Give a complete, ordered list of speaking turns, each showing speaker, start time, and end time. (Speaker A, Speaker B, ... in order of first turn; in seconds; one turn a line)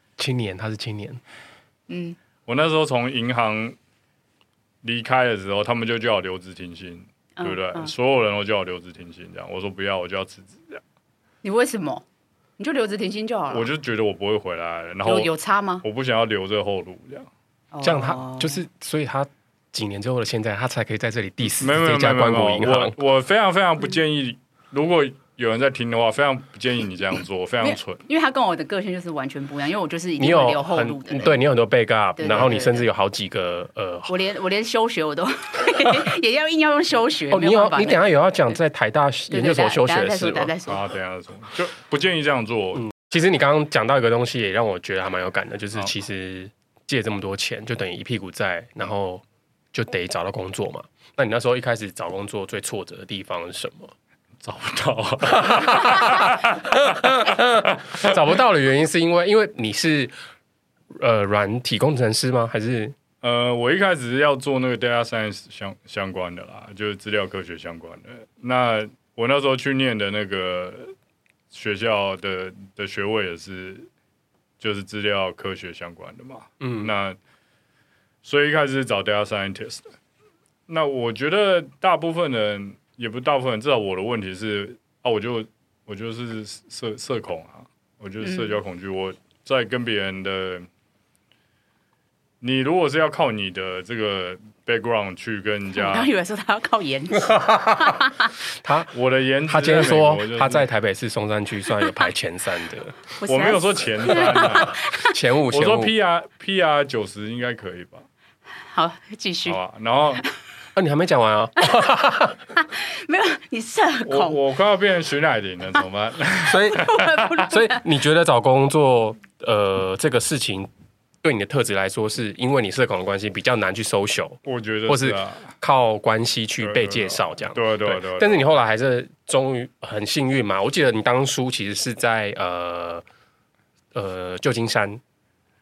Speaker A: 0.2-1.2
Speaker B: 1.9-2.2
Speaker C: 2.5-3.8
Speaker C: 4.8-10.8
Speaker B: 7.4-7.9
Speaker B: 11.4-12.0
Speaker B: 12.6-13.7
Speaker C: 13.5-15.3
Speaker B: 15.0-15.8
Speaker C: 15.8-17.3
Speaker B: 17.7-18.6
Speaker A: 17.8-23.0
Speaker C: 21.6-28.0
Speaker B: 27.6-31.3
Speaker A: 30.2-34.1
Speaker B: 32.2-32.9
Speaker B: 34.1-38.5
Speaker A: 37.3-40.5
Speaker B: 39.3-40.8
Speaker C: 40.7-42.9
Speaker A: 42.7-53.9
Speaker C: 54.4-58.1
Speaker A: 55.3-60.1
Speaker A: 61.0-63.0
Speaker C: 63.2-70.9
Speaker C: 71.5-73.9
Speaker C: 74.6-77.2
Speaker A: 76.6-76.9
Speaker C: 78.2-79.8
Speaker C: 80.7-90.7
Speaker B: 88.2-88.6
Speaker C: 92.4-96.1
Speaker B: 95.7-98.3
Speaker A: 97.3-98.0
Speaker A: 98.6-98.9
Speaker C: 98.9-100.7
Speaker A: 99.5-103.0
Speaker B: 103.2-105.1
Speaker C: 103.2-104.8
Speaker A: 104.2-105.9
Speaker C: 105.5-108.0
Speaker B: 108.7-109.6
Speaker C: 109.5-110.2
Speaker A: 110.7-112.4
Speaker B: 112.7-114.4
Speaker C: 114.0-117.3
Speaker A: 116.5-116.9
Speaker B: 116.6-117.8
Speaker A: 117.4-120.7
Speaker A: 121.2-133.0
Speaker C: 124.4-125.5
Speaker C: 126.6-128.4
Speaker A: 133.9-135.0